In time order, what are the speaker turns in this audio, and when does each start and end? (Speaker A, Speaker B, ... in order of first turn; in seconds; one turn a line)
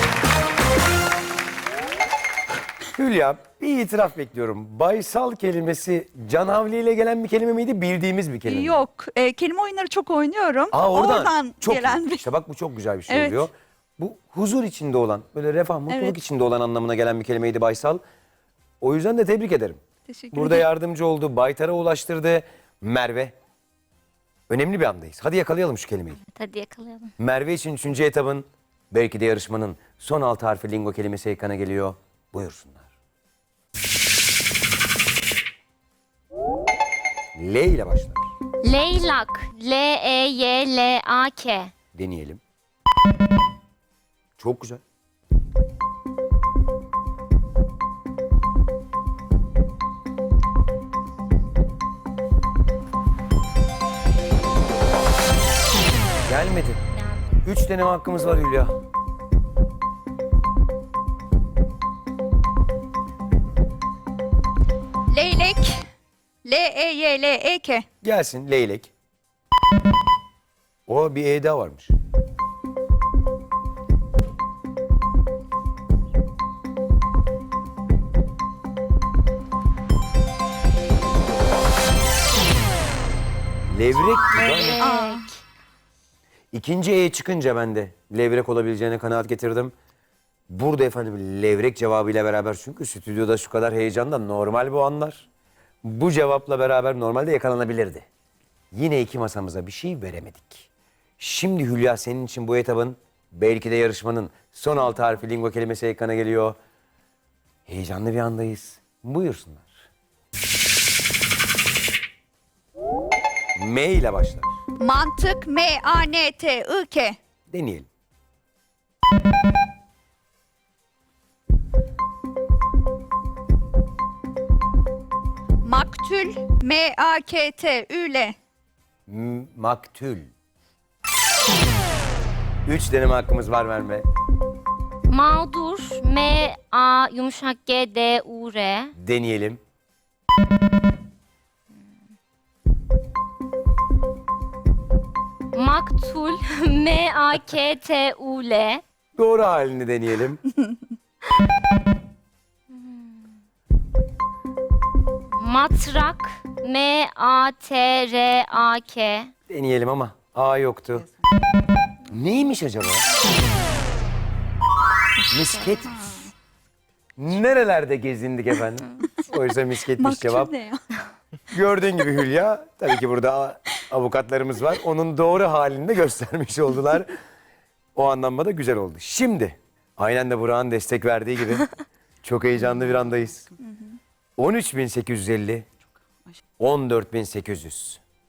Speaker A: 2.9-8.8
Speaker B: 8.5-12.3
Speaker A: 10.7-18.0
Speaker B: 13.1-13.5
Speaker B: 15.9-16.2
Speaker A: 18.8-19.8
Speaker B: 20.1-20.7
Speaker A: 20.3-23.3
Speaker A: 24.5-26.2
Speaker C: 26.2-27.1
Speaker A: 27.2-32.9
Speaker A: 37.4-38.2
Speaker C: 38.6-41.7
Speaker A: 41.9-42.4
Speaker A: 44.4-44.8
Speaker A: 56.3-56.8
Speaker C: 56.9-57.4
Speaker A: 57.4-58.7
Speaker B: 65.1-65.9
Speaker B: 66.5-67.9
Speaker A: 68.0-68.9
Speaker A: 70.9-71.9
Speaker A: 83.7-84.8
Speaker C: 84.3-85.4
Speaker B: 84.8-85.3
Speaker A: 86.5-89.7
Speaker A: 90.5-95.3
Speaker A: 95.8-98.1
Speaker A: 98.7-100.7
Speaker A: 101.2-106.6
Speaker A: 107.7-109.8
Speaker A: 113.6-114.5
Speaker B: 114.8-117.2
Speaker A: 117.5-117.9
Speaker B: 125.6-128.3
Speaker A: 129.1-130.3
Speaker A: 132.7-134.1
Speaker C: 135.1-138.9
Speaker A: 139.0-139.6
Speaker C: 145.5-148.8
Speaker A: 149.2-150.4
Speaker C: 152.7-153.3
Speaker C: 155.3-159.3
Speaker A: 159.5-161.1
Speaker A: 162.1-163.1
Speaker C: 165.2-165.9
Speaker A: 165.3-166.0
Speaker B: 165.9-166.3
Speaker A: 167.2-170.5
Speaker B: 170.0-171.0
Speaker A: 171.5-177.1
Speaker A: 178.0-181.7
Speaker A: 182.2-183.5
Speaker A: 184.4-185.7
Speaker A: 186.6-188.0